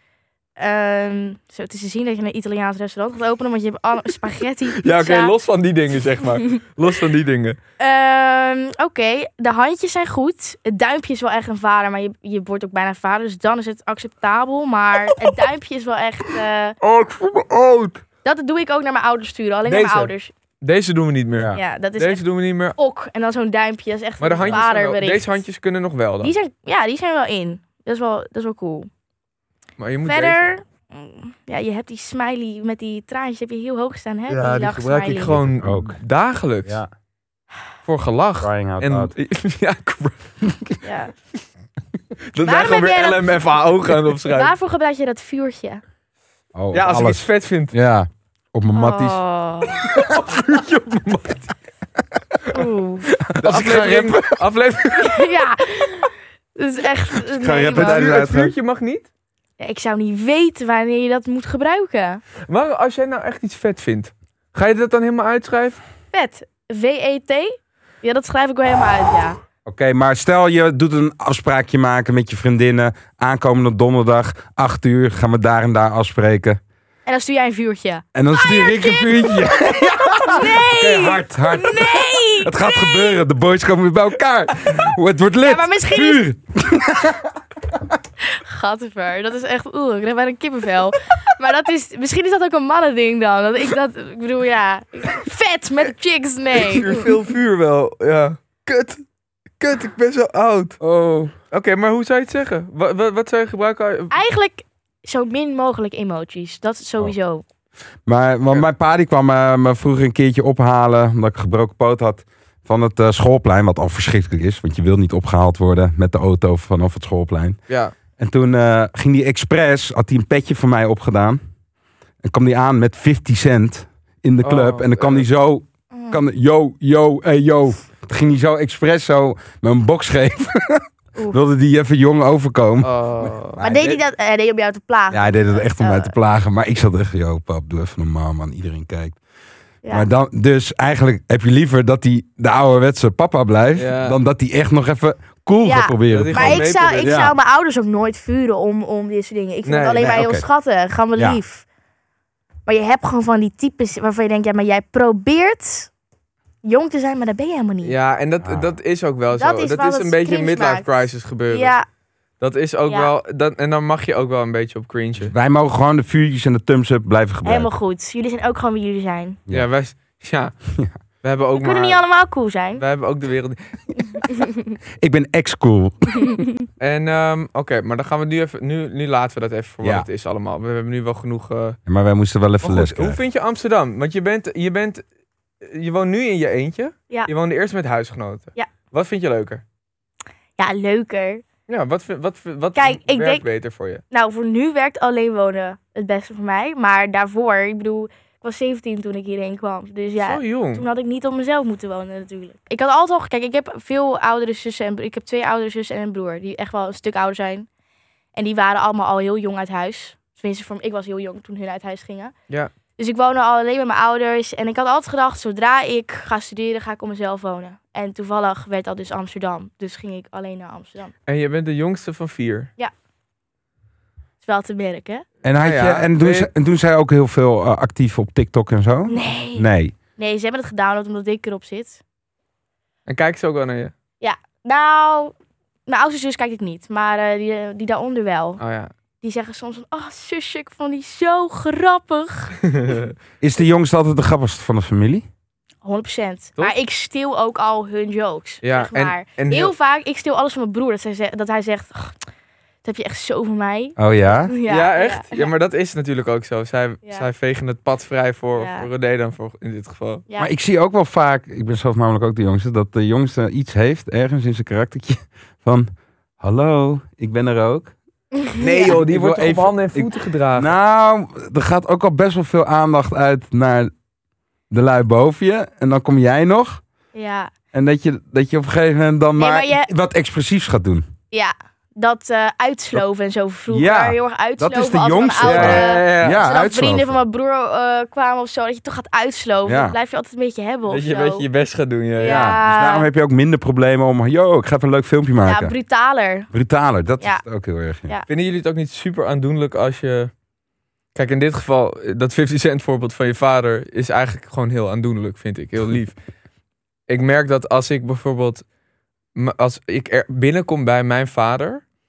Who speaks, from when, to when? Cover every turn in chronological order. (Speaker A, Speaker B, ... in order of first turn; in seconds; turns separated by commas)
Speaker A: 0.6-5.3, Speaker B: 4.8-7.6, Speaker A: 7.8-16.8, Speaker B: 16.8-18.0, Speaker A: 18.2-20.3, Speaker B: 19.6-22.8, Speaker A: 21.5-25.4, Speaker B: 24.2-26.3, Speaker A: 26.2-28.9, Speaker B: 29.8-30.5, Speaker A: 30.1-35.4, Speaker B: 34.3-36.8, Speaker C: 34.5-36.0, Speaker B: 37.8-40.3, Speaker C: 38.4-39.1, Speaker A: 40.8-41.1, Speaker B: 42.3-44.5, Speaker A: 42.4-43.4, Speaker A: 44.3-45.8, Speaker C: 46.5-49.2, Speaker B: 46.7-47.8, Speaker A: 48.7-49.8, Speaker B: 49.8-51.5, Speaker A: 52.5-53.1, Speaker C: 53.2-54.4, Speaker B: 53.4-55.3, Speaker A: 55.0-58.0, Speaker C: 57.2-58.5, Speaker B: 57.7-59.1, Speaker A: 59.6-62.2, Speaker B: 62.5-65.8, Speaker A: 66.1-69.4, Speaker C: 69.7-76.6, Speaker A: 77.0-83.2, Speaker C: 78.1-87.8, Speaker A: 85.4-86.2, Speaker A: 88.2-97.0, Speaker B: 96.5-99.0, Speaker B: 99.6-100.8, Speaker C: 100.8-101.3, Speaker B: 101.5-104.1, Speaker A: 104.1-107.4, Speaker C: 108.0-117.6, Speaker C: 118.2-121.4, Speaker C: 122.2-134.0, Speaker B: 124.4-125.2, Speaker A: 125.9-126.2, Speaker B: 132.8-133.6, Speaker A: 133.6-136.1, Speaker C: 135.1-139.2, Speaker C: 139.9-147.3, Speaker B: 143.8-144.2, Speaker A: 145.6-151.7, Speaker B: 146.1-147.3, Speaker B: 149.7-150.1, Speaker C: 150.0-150.4, Speaker A: 152.7-155.9, Speaker A: 156.6-157.9, Speaker B: 157.8-161.7, Speaker C: 158.4-158.7, Speaker A: 159.3-161.8, Speaker B: 162.4-165.3, Speaker C: 165.2-167.7, Speaker A: 167.4-169.4, Speaker B: 169.5-170.5, Speaker B: 171.2-172.0, Speaker A: 171.6-172.8, Speaker B: 172.8-173.6, Speaker A: 174.3-174.6, Speaker C: 175.0-176.2, Speaker A: 176.2-176.5, Speaker B: 176.8-181.8, Speaker C: 181.8-183.2, Speaker B: 182.6-185.0, Speaker B: 185.6-189.6, Speaker A: 190.6-191.4, Speaker B: 191.7-194.0, Speaker A: 192.8-193.4, Speaker A: 194.1-207.7, Speaker B: 200.2-200.8, Speaker A: 208.3-212.3, Speaker A: 213.0-221.1, Speaker B: 221.3-222.7, Speaker A: 224.4-225.2, Speaker C: 225.4-229.9, Speaker B: 225.6-226.5, Speaker A: 229.1-232.0, Speaker B: 233.1-233.9, Speaker A: 234.2-235.3, Speaker A: 235.9-238.6, Speaker B: 238.6-238.9, Speaker A: 239.2-242.6, Speaker B: 242.7-243.1, Speaker C: 243.4-245.3, Speaker A: 245.8-252.2, Speaker B: 248.6-249.7, Speaker A: 252.8-255.5, Speaker C: 254.0-254.5, Speaker B: 254.7-260.2, Speaker A: 258.5-258.9, Speaker C: 260.4-267.9, Speaker A: 268.4-268.9, Speaker B: 268.6-270.7, Speaker C: 268.8-273.9, Speaker C: 274.7-276.8, Speaker A: 277.1-277.5, Speaker C: 277.7-281.0, Speaker A: 279.4-279.9, Speaker A: 281.3-291.4, Speaker C: 283.7-287.2, Speaker B: 285.4-286.4, Speaker C: 289.6-289.9, Speaker B: 290.9-292.5, Speaker A: 292.2-293.1, Speaker C: 292.2-295.7, Speaker A: 295.4-296.5, Speaker C: 296.5-298.1, Speaker B: 298.3-300.3, Speaker B: 301.1-306.1, Speaker B: 307.1-308.6, Speaker B: 309.3-311.8